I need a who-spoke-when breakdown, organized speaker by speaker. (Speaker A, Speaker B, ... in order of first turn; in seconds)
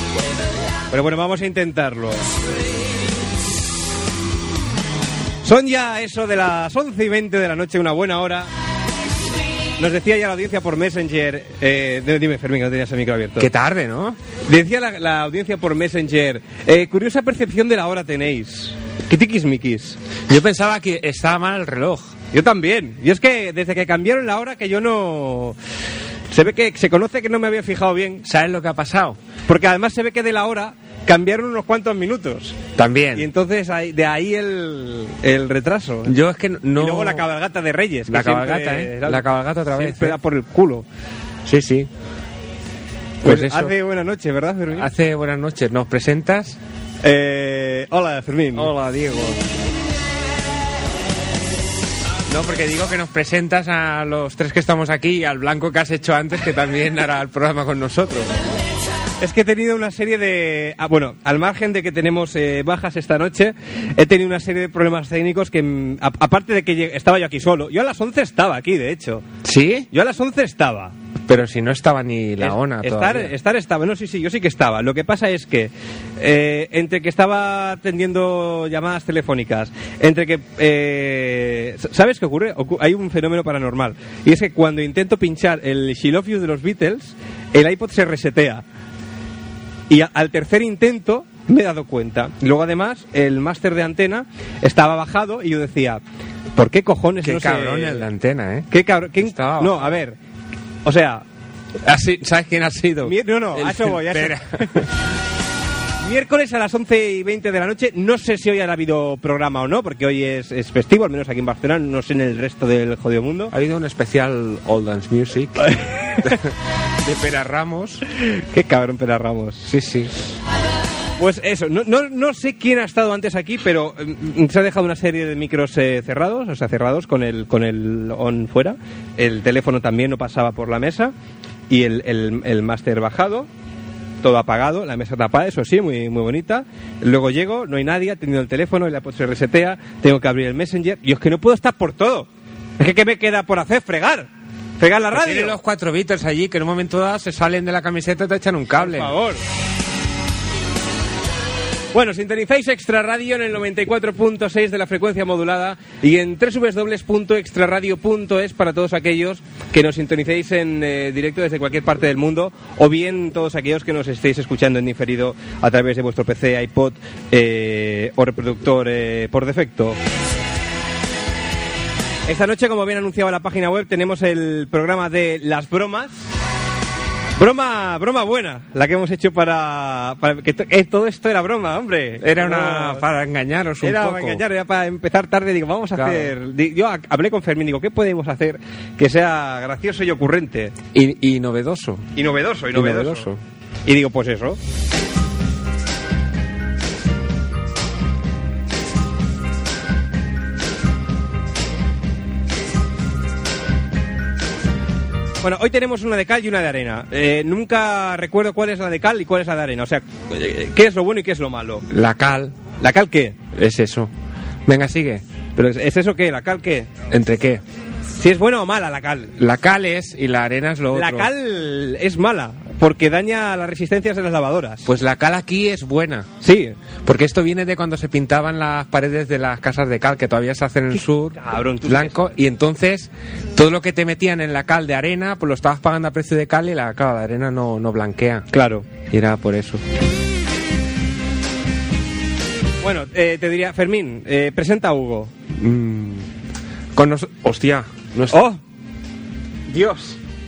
Speaker A: 0.9-2.3, 5.4-8.5, 9.8-13.5, 14.5-20.0, 22.3-25.6, 26.3-28.2, 29.5-32.6, 33.1-36.1, 36.8-40.9, 43.2-44.9, 47.0-48.7, 59.2-69.2, 69.9-70.9, 72.4-88.6, 89.9-96.0, 96.5-98.1, 98.7-100.2, 100.8-101.2, 103.0-104.5, 106.0-113.5, 118.5-119.7, 121.2-131.1, 131.7-133.5, 134.2-142.3, 142.8-144.3, 144.8-145.6, 148.8-149.4, 151.9-170.0, 172.3-176.1, 177.4-183.0, 183.8-190.8, 192.2-193.3, 193.9-194.6, 205.4-211.8, 212.8-213.4, 215.6-216.9, 218.2-219.3, 220.9-224.9, 226.4-226.8, 230.9-232.2, 238.5-238.9, 242.8-245.3, 248.3-248.6, 249.7-250.2
Speaker B: 13.4-14.2, 20.3-22.1, 28.2-29.2, 32.8-33.3, 36.1-37.3, 38.1-40.2, 41.5-41.9, 43.2-43.8, 44.7-46.6, 48.5-49.4, 52.3-58.4, 69.4-69.9, 71.3-73.3, 97.2-100.0, 101.8-104.9, 113.5-116.4, 117.0-118.0, 119.7-120.4, 145.1-149.1, 182.2-184.4, 185.9-186.3, 190.9-192.1, 192.7-193.4, 211.9-212.6, 213.5-214.1, 214.7-215.2, 217.1-217.6, 219.4-221.3, 224.8-226.3, 227.1-238.5, 239.0-239.8, 245.5-246.3, 246.9-248.5